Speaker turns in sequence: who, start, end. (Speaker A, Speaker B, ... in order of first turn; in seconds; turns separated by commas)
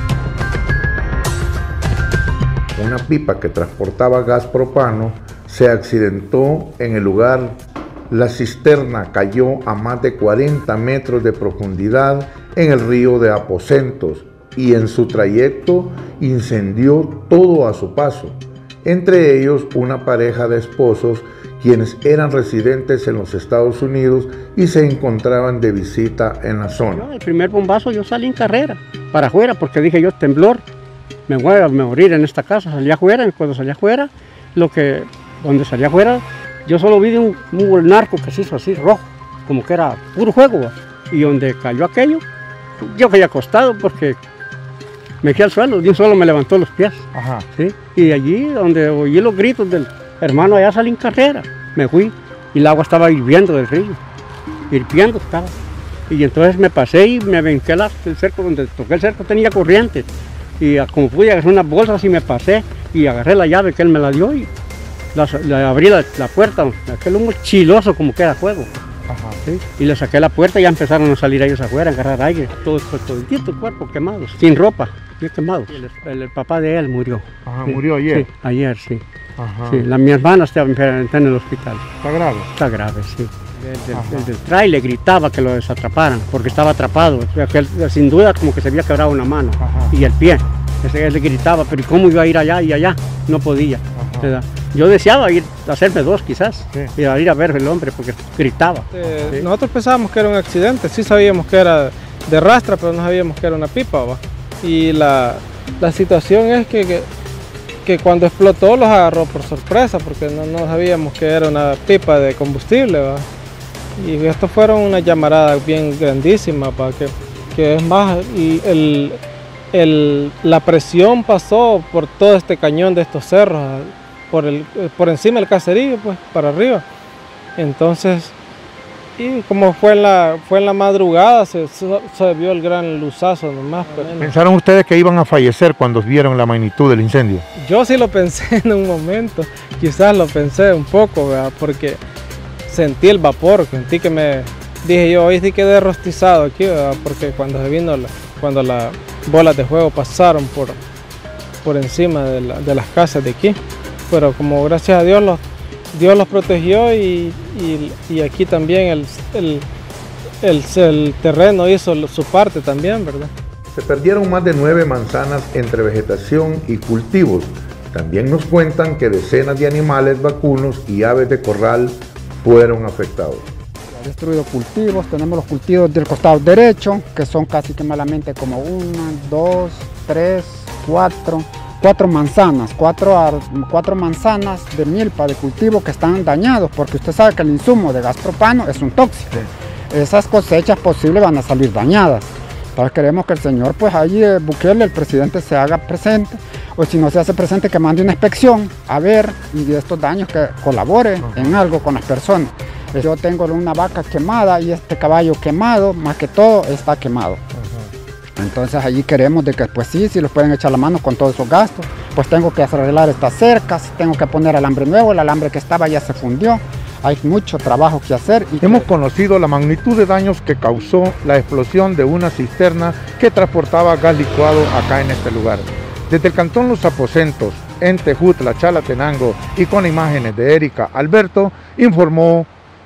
Speaker A: 2.7-27.1, Speaker B: 26.9-30.6, Speaker B: 31.3-42.2, Speaker B: 42.8-44.2, Speaker B: 45.2-54.0, Speaker A: 47.1-47.5, Speaker B: 54.7-55.5, Speaker B: 56.1-60.1, Speaker B: 60.6-64.5, Speaker B: 65.1-68.7, Speaker A: 69.1-69.4, Speaker B: 69.4-79.0, Speaker A: 77.5-78.3, Speaker A: 79.4-79.8, Speaker B: 79.7-81.9, Speaker A: 82.0-82.5, Speaker B: 82.5-99.5, Speaker A: 83.9-84.3, Speaker A: 89.6-89.9, Speaker A: 94.0-94.3, Speaker C: 98.9-107.1, Speaker C: 107.8-113.2, Speaker C: 114.0-119.2, Speaker C: 119.7-126.8, Speaker C: 127.5-128.3, Speaker C: 129.2-134.3, Speaker A: 134.2-137.4, Speaker C: 137.6-142.0, Speaker C: 142.7-150.8, Speaker C: 151.6-153.6, Speaker C: 154.1-155.4, Speaker C: 155.9-159.6, Speaker C: 160.4-163.3, Speaker A: 163.7-173.5, Speaker D: 173.9-207.4, Speaker A: 201.2-201.6, Speaker D: 208.4-218.9, Speaker A: 218.6-232.5